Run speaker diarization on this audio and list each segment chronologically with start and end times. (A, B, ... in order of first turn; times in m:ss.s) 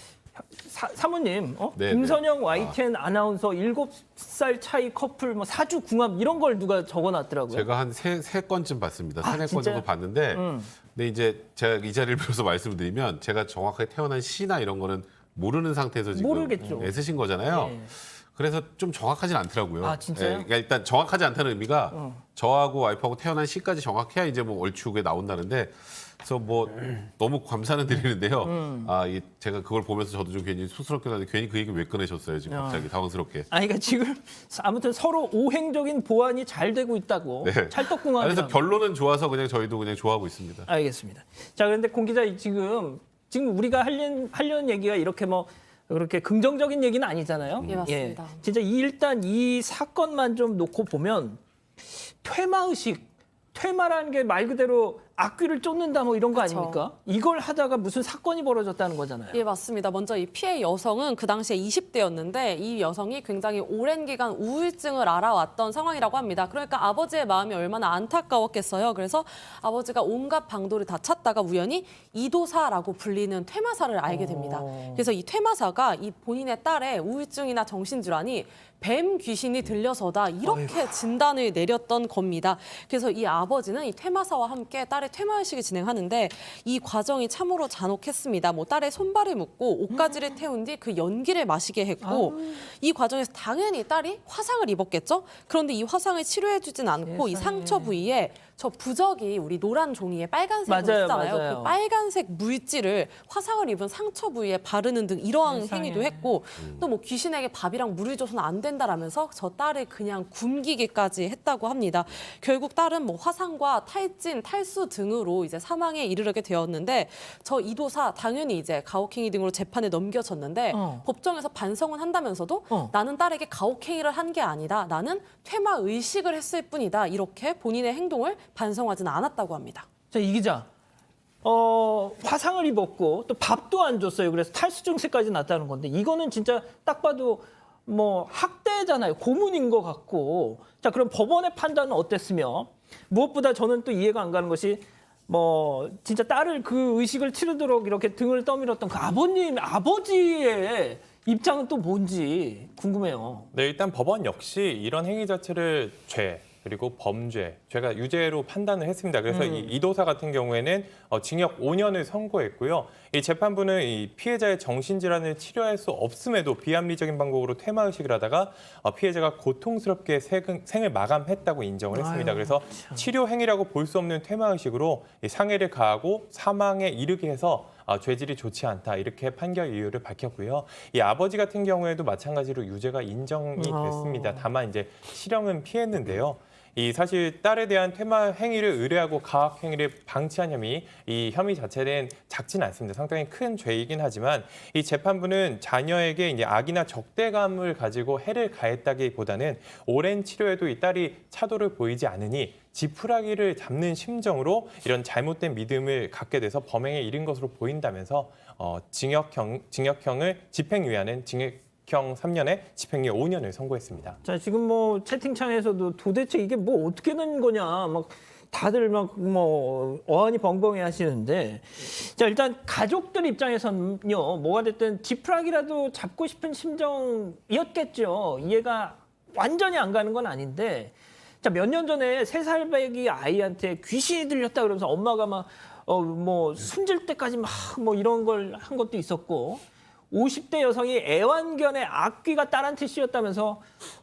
0:00.4-0:07.7 A
0:01.8-0:02.8 B
0:07.5-0:33.5 B
0:09.2-0:10.7 A
0:16.1-0:17.9 A
0:19.8-0:20.5 A
0:21.9-0:22.2 A
0:27.9-0:28.9 A
0:32.5-0:32.9 A
0:33.5-0:38.6 A
0:37.4-0:40.7 B
0:40.7-0:59.4 A
0:47.6-0:47.9 B
0:47.7-0:48.4 C
0:56.3-0:56.8 C
0:59.3-2:09.9 C
1:14.1-1:15.1 A
1:20.4-1:20.9 A
1:29.9-1:30.2 A
1:32.0-1:32.6 A
1:37.0-1:37.9 A
1:40.7-1:41.7 A
1:45.4-1:46.3 A
2:00.7-2:01.0 A
2:10.1-2:10.7 A
2:11.4-2:33.5 A
2:33.5-3:34.2 D
2:39.3-2:39.8 A
2:51.9-2:53.1 A
3:03.6-3:04.5 A
3:34.2-4:03.7 A